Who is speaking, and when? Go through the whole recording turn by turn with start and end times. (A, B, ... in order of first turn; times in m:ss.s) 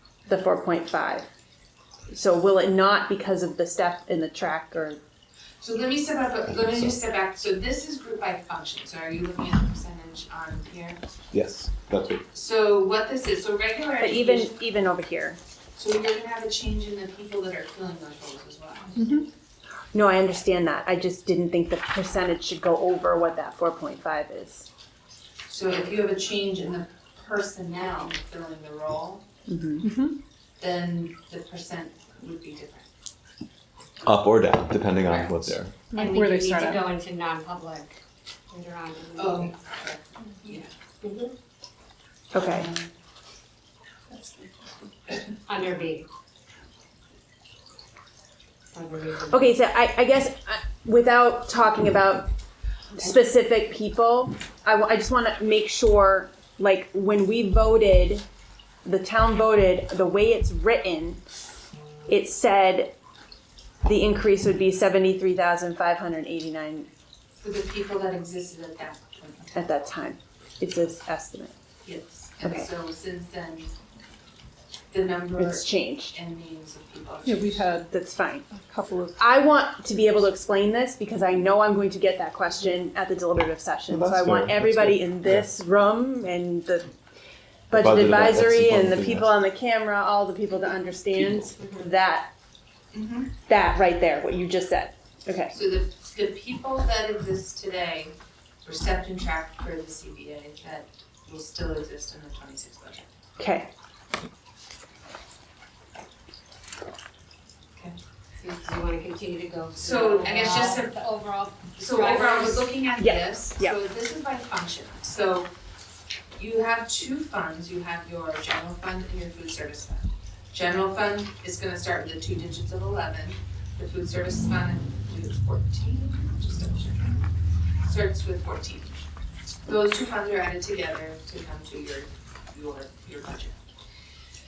0:00.3-0:01.3 A
0:02.1-0:05.0 A
0:05.6-0:11.0 B
0:11.3-0:12.2 C
0:12.3-0:14.7 B
0:14.0-0:15.4 A
0:15.8-0:19.0 B
0:19.9-0:24.7 A
0:25.5-0:29.3 B
0:29.5-0:29.9 A
0:29.8-0:30.2 D
0:30.6-0:32.9 B
0:34.0-0:35.7 C
0:35.0-0:35.4 B
0:35.9-0:36.9 D
0:36.0-0:38.0 E
0:36.0-0:36.3 B
0:38.5-0:39.6 E
0:39.2-0:40.7 B
0:41.0-0:41.3 E
0:42.3-0:42.7 A
0:42.4-0:42.9 B
0:44.1-0:44.5 D
0:45.5-0:46.1 E
0:48.7-0:49.6 E
0:49.3-0:52.3 A
0:53.0-0:58.2 A
0:58.8-1:01.2 A
1:02.1-1:02.9 A
1:03.8-1:06.9 A
1:07.4-1:09.7 B
1:09.6-1:11.5 A
1:11.8-1:13.7 B
1:12.4-1:12.7 A
1:14.9-1:17.6 B
1:15.4-1:16.2 A
1:17.2-1:17.9 D
1:17.9-1:18.5 A
1:18.5-1:19.2 D
1:19.2-1:26.9 A
1:23.9-1:25.4 C
1:27.7-1:32.3 A
1:27.7-1:29.3 C
1:32.9-1:33.3 B
1:33.5-1:35.6 A
1:35.5-1:43.1 B
1:43.4-1:43.7 A
1:48.4-1:52.7 E
1:49.8-1:51.0 B
1:51.8-1:55.5 B
1:53.0-1:53.8 A
1:56.4-2:07.3 B
2:07.8-2:09.0 B
2:09.7-2:13.6 B